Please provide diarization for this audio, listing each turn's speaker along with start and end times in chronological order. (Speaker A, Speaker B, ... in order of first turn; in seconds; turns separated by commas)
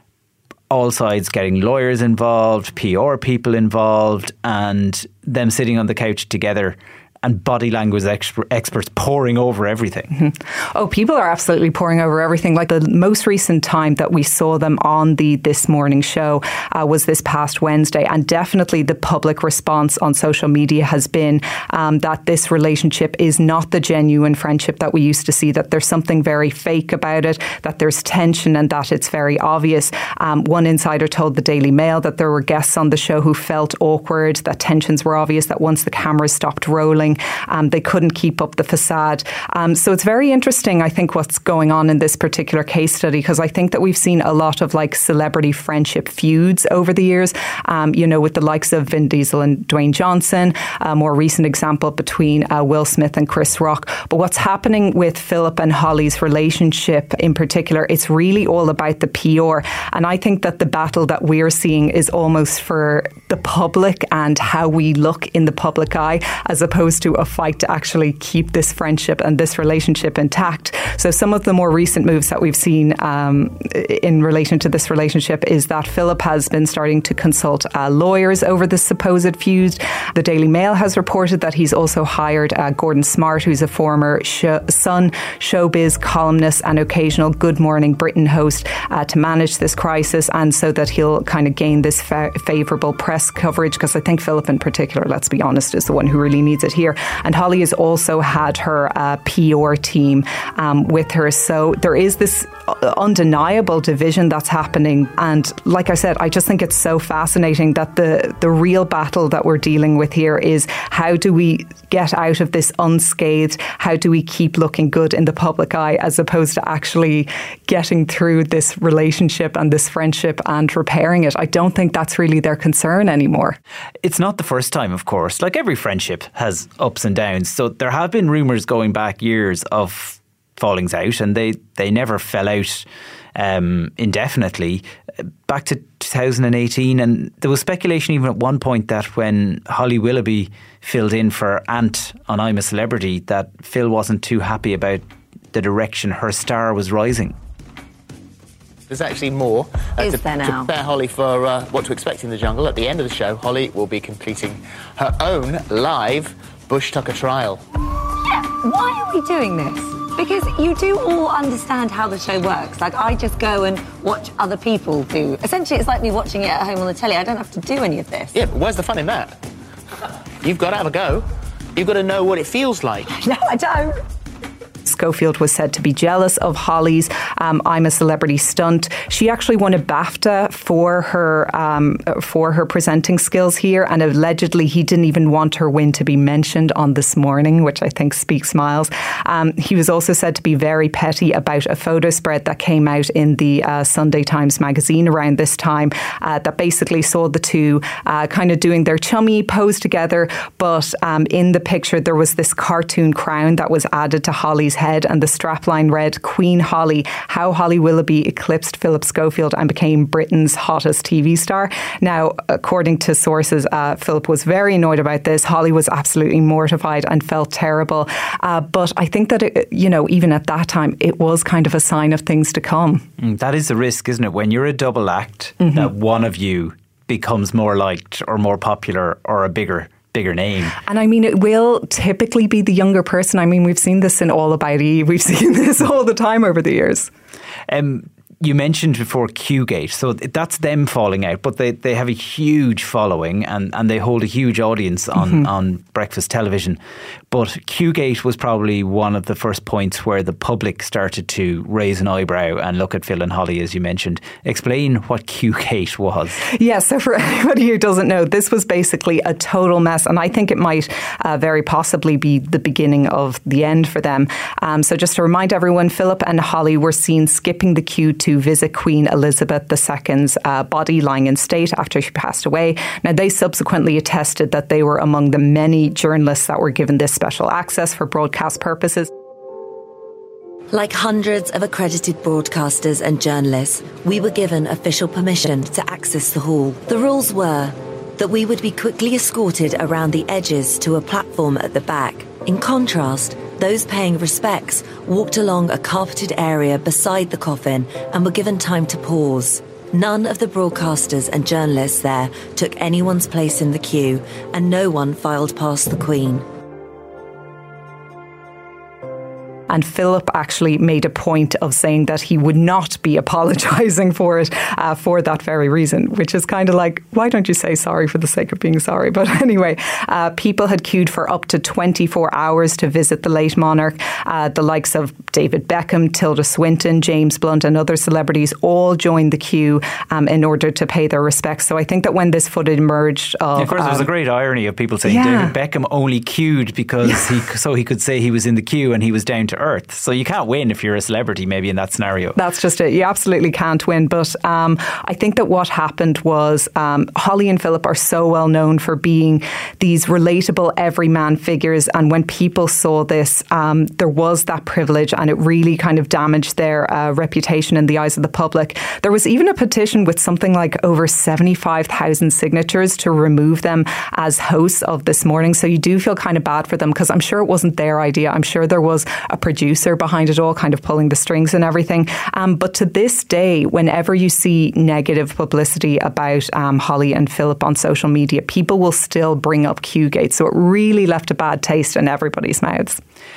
Speaker A: 0.7-10.1, Speaker B: 10.1-123.6, Speaker A: 124.0-145.0, Speaker A: 145.5-147.3, Speaker C: 148.9-157.6, Speaker D: 150.0-150.7, Speaker D: 158.2-168.3, Speaker C: 168.3-169.4, Speaker C: 170.4-173.1, Speaker D: 173.2-174.0, Speaker B: 174.8-223.0, Speaker A: 223.2-230.8, Speaker B: 225.6-225.9, Speaker B: 230.8-237.1, Speaker A: 237.7-246.8, Speaker B: 245.2-245.5, Speaker A: 247.3-256.4, Speaker B: 256.4-279.1, Speaker E: 280.7-306.5, Speaker B: 309.7-334.1, Speaker A: 333.6-342.4, Speaker B: 335.1-335.5, Speaker B: 342.4-383.0